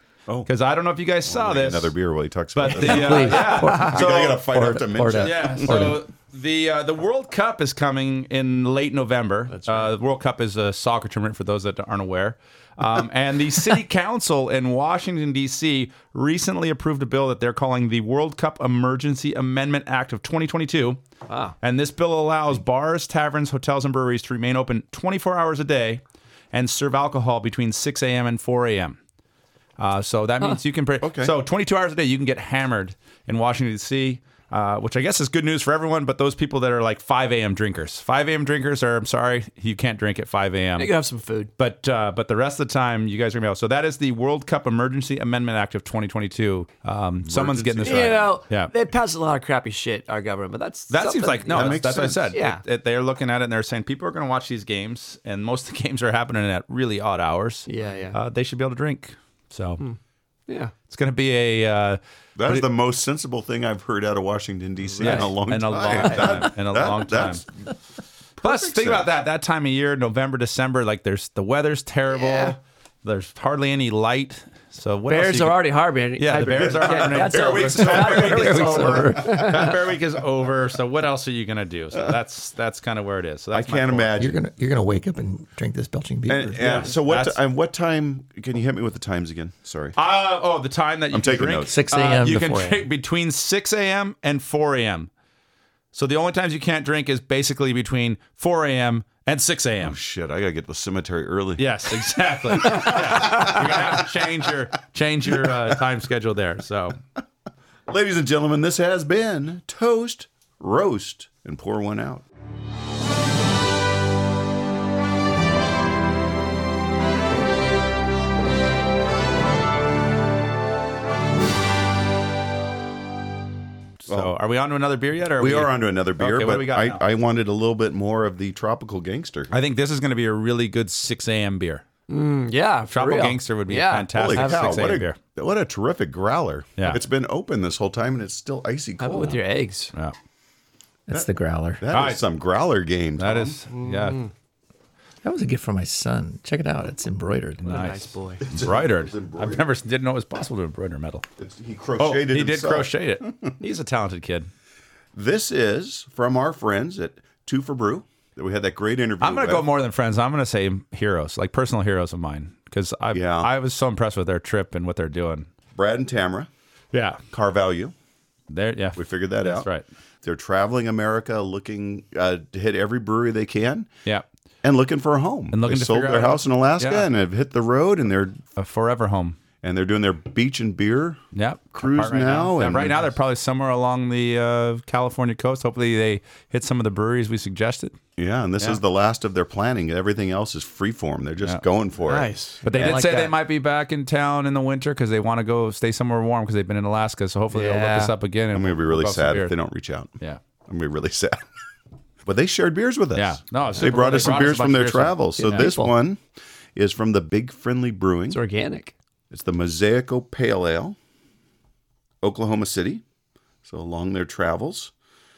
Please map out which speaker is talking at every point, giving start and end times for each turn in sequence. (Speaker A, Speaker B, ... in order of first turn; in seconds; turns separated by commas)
Speaker A: 0.5-1.9, Speaker B: 1.3-5.9, Speaker A: 2.5-4.5, Speaker C: 2.7-6.0, Speaker A: 5.2-21.0, Speaker D: 9.5-9.9, Speaker D: 21.3-21.5, Speaker A: 21.6-29.0, Speaker A: 29.8-40.9, Speaker B: 31.0-31.3, Speaker D: 40.8-41.5, Speaker A: 41.6-48.7, Speaker B: 47.2-48.4, Speaker D: 47.8-52.6, Speaker A: 50.9-59.8, Speaker B: 51.5-52.4, Speaker D: 57.7-58.2, Speaker D: 59.8-60.7, Speaker A: 60.9-62.7, Speaker B: 62.4-67.7, Speaker D: 65.0-65.3, Speaker A: 65.0-67.4, Speaker D: 65.9-66.2, Speaker B: 68.4-69.1, Speaker A: 68.4-75.6, Speaker D: 72.1-72.5, Speaker D: 75.1-79.7, Speaker A: 76.2-84.2, Speaker B: 77.1-79.4, Speaker C: 78.3-79.3, Speaker B: 83.5-84.4, Speaker C: 84.2-86.9, Speaker B: 86.3-90.0, Speaker A: 86.6-87.4, Speaker A: 90.0-95.1, Speaker B: 91.1-91.7, Speaker C: 91.7-92.9, Speaker A: 95.9-100.0, Speaker B: 99.8-101.7, Speaker A: 101.6-107.0, Speaker B: 102.5-104.1, Speaker B: 107.9-112.2, Speaker A: 124.0-127.0, Speaker B: 125.4-129.5, Speaker A: 129.5-131.8, Speaker D: 132.1-134.8, Speaker A: 132.9-135.2, Speaker B: 134.1-139.4, Speaker A: 136.8-137.0, Speaker D: 139.0-139.9, Speaker C: 141.1-141.8, Speaker B: 141.8-143.6, Speaker A: 141.9-142.2, Speaker A: 143.2-144.2, Speaker D: 143.7-144.3, Speaker C: 145.2-147.9, Speaker A: 147.6-151.2, Speaker D: 147.7-148.4, Speaker B: 148.4-149.6, Speaker B: 151.4-153.5, Speaker A: 152.0-154.5, Speaker B: 155.1-159.7, Speaker A: 159.2-165.5, Speaker B: 163.1-163.5, Speaker B: 165.8-166.5, Speaker A: 166.9-167.2, Speaker B: 167.3-167.9, Speaker A: 168.5-169.8, Speaker B: 168.9-169.7, Speaker B: 170.2-173.9, Speaker B: 174.6-178.4, Speaker A: 175.5-177.1, Speaker A: 178.6-179.4, Speaker B: 179.6-181.2, Speaker A: 181.3-187.9, Speaker B: 181.8-183.1, Speaker B: 188.2-193.0, Speaker D: 192.1-193.3, Speaker A: 192.6-199.5, Speaker D: 197.5-198.1, Speaker B: 198.5-200.1, Speaker B: 200.6-201.4, Speaker B: 202.2-206.2, Speaker A: 203.1-205.7, Speaker D: 205.4-205.9, Speaker B: 206.7-208.4, Speaker D: 208.3-208.9, Speaker B: 209.3-211.0, Speaker B: 212.2-213.0, Speaker B: 213.6-214.9